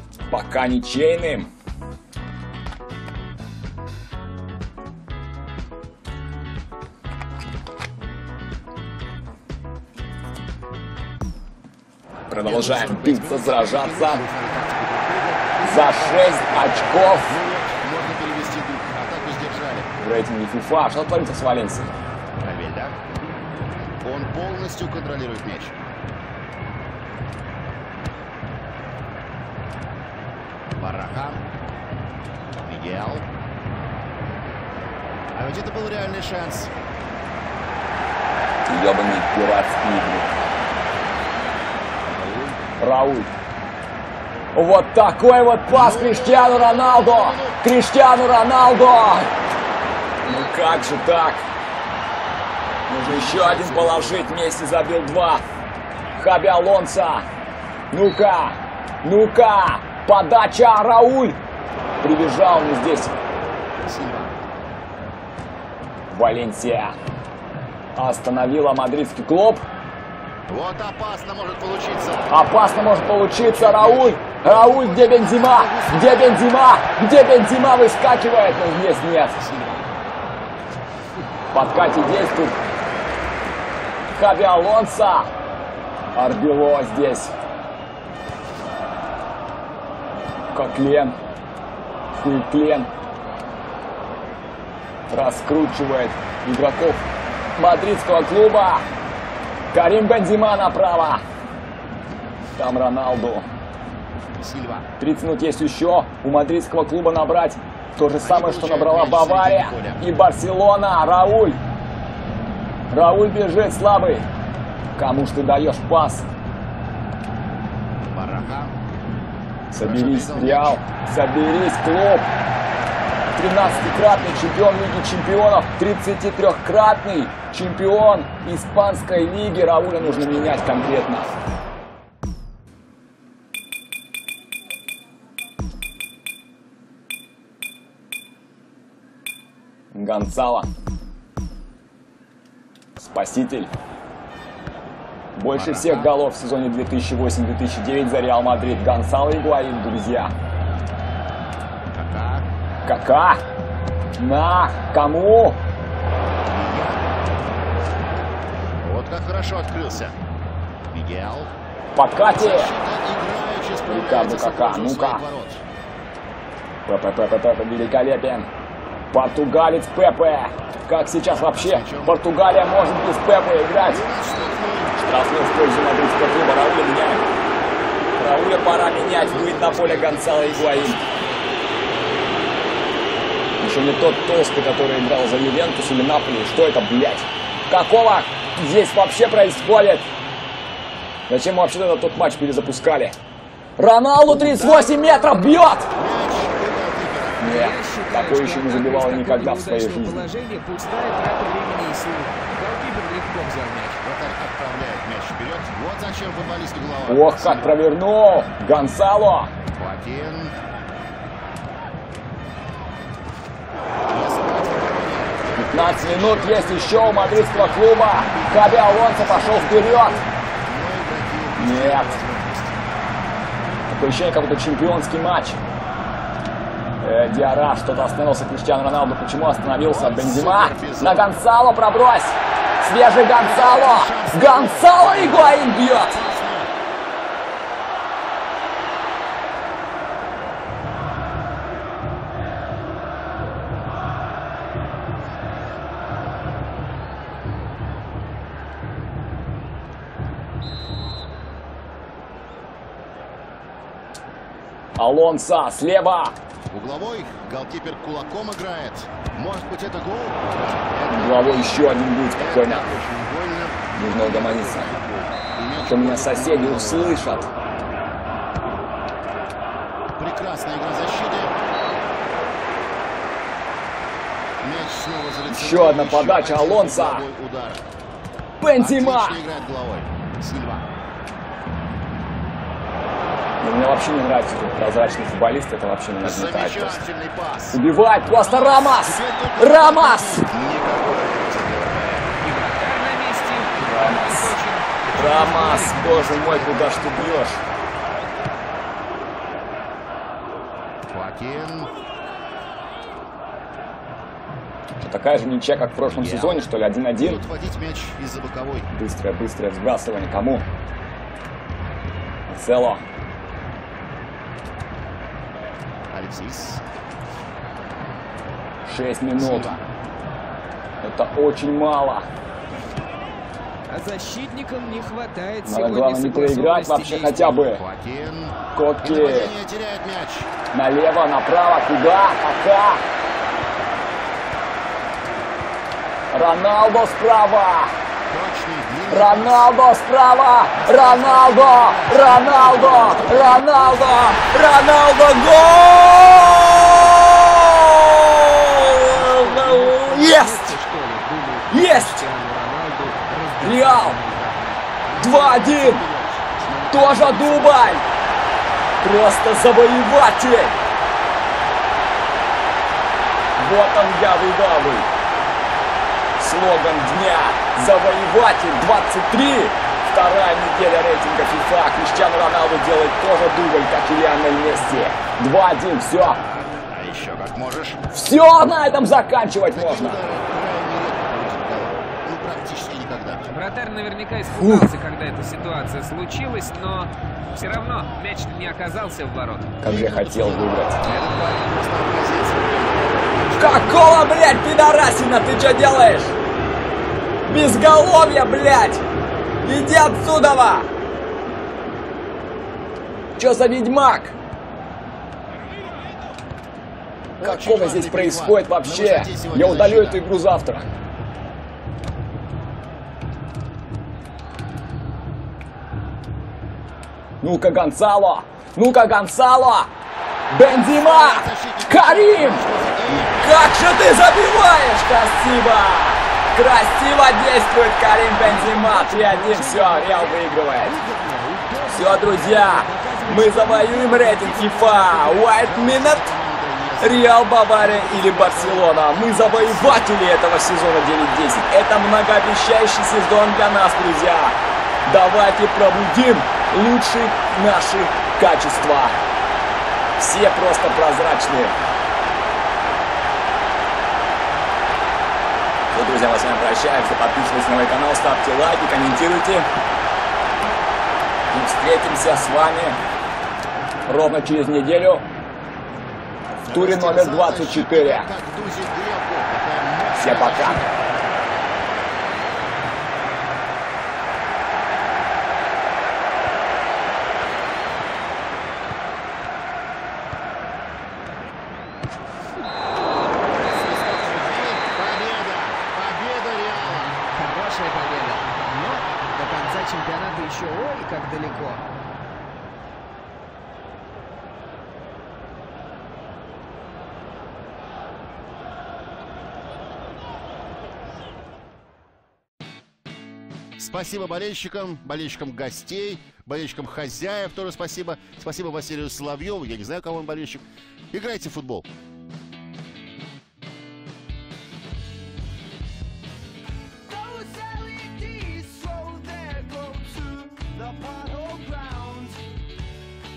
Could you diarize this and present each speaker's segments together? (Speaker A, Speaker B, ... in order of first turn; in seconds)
Speaker A: 0.3-1.5, 12.3-14.2, 15.6-17.4, 20.0-21.9, 38.6-40.3, 42.8-43.3, 44.5-49.3, 50.2-51.4, 52.9-55.4, 56.1-57.2, 57.9-61.4, 62.0-63.2, 66.1-66.9, 68.0-69.6, 72.3-79.4, 81.5-82.6, 84.1-85.3, 86.1-87.3, 90.5-91.2, 92.1-92.9, 95.1-97.0, 97.6-98.8, 99.7-101.2, 102.6-103.5, 105.0-111.6, 112.9-114.2, 115.0-116.3, 119.7-122.3, 123.3-131.3, 139.9-140.7, 143.0-143.7, 145.3-150.3, 152.8-153.4, 154.2-155.6, 161.9-162.7, 163.9-165.2, 166.8-168.5, 169.1-174.0, 175.0-177.2, 178.2-181.0, 183.6-190.1, 191.3-193.2, 193.8-195.9, 197.4-200.2, 207.1-209.5, 215.5-220.2, 221.6-222.2, 223.9-225.6, 227.0-236.1, 255.0-256.3, 261.1-262.9, 263.9-264.9, 265.8-267.5, 275.5-277.2, 278.6-279.4, 283.6-287.0, 287.7-290.5, 293.8-294.5, 295.1-297.6, 305.0-307.4, 308.9-310.6, 312.5-313.0, 318.8-319.7, 321.0-322.2, 325.6-327.8, 328.7-329.5, 330.7-333.0, 336.3-337.9, 339.1-350.7, 351.7-352.2, 353.6-354.2, 355.2-356.0, 356.9-358.0, 359.0-360.8, 363.6-365.1, 366.4-376.4, 378.1-380.2, 384.6-384.9, 389.8-391.0, 393.6-396.3, 397.4-399.0, 399.6-400.9, 403.4-404.3, 407.4-410.9, 417.4-419.9, 420.5-430.9, 431.9-436.2, 437.0-449.2, 450.2-451.7, 455.9-459.7, 461.5-463.0, 464.1-465.2, 466.7-468.3, 470.1-470.8
Speaker B: 12.4-19.9, 22.4-22.9, 24.0-25.8, 30.8-31.4, 32.6-33.2, 35.3-36.7, 41.9-42.6, 45.7-47.6, 53.0-54.3, 63.8-64.4, 70.5-72.4, 73.4-76.6, 79.4-79.8, 104.4-104.9, 108.2-110.1, 118.1-118.7, 119.7-120.8, 123.6-124.8, 130.2-131.0, 145.5-146.2, 151.9-152.4, 156.5-157.0, 158.8-160.2, 160.9-161.5, 162.3-165.6, 171.3-172.2, 173.8-175.1, 179.1-181.7, 194.2-197.6, 204.0-207.8, 209.7-210.5, 214.1-222.8, 229.8-231.3, 233.3-236.7, 256.7-267.5, 270.2-271.6, 274.6-277.8, 278.8-280.9, 286.2-287.8, 288.3-292.4, 296.6-297.6, 301.1-301.9, 306.1-308.9, 316.1-316.8, 319.4-319.8, 327.6-330.5, 338.3-339.7, 340.7-345.1, 355.0-358.0, 376.9-378.0, 379.7-383.5, 389.8-394.0, 407.4-410.2, 420.6-423.9, 434.4-440.1, 466.5-471.0, 483.6-487.2, 503.8-511.9
Speaker C: 197.4-204.0, 292.4-296.9, 323.9-327.6, 346.3-347.1, 349.1-354.8, 383.5-389.8, 428.4-435.0, 487.2-491.8, 517.1-522.5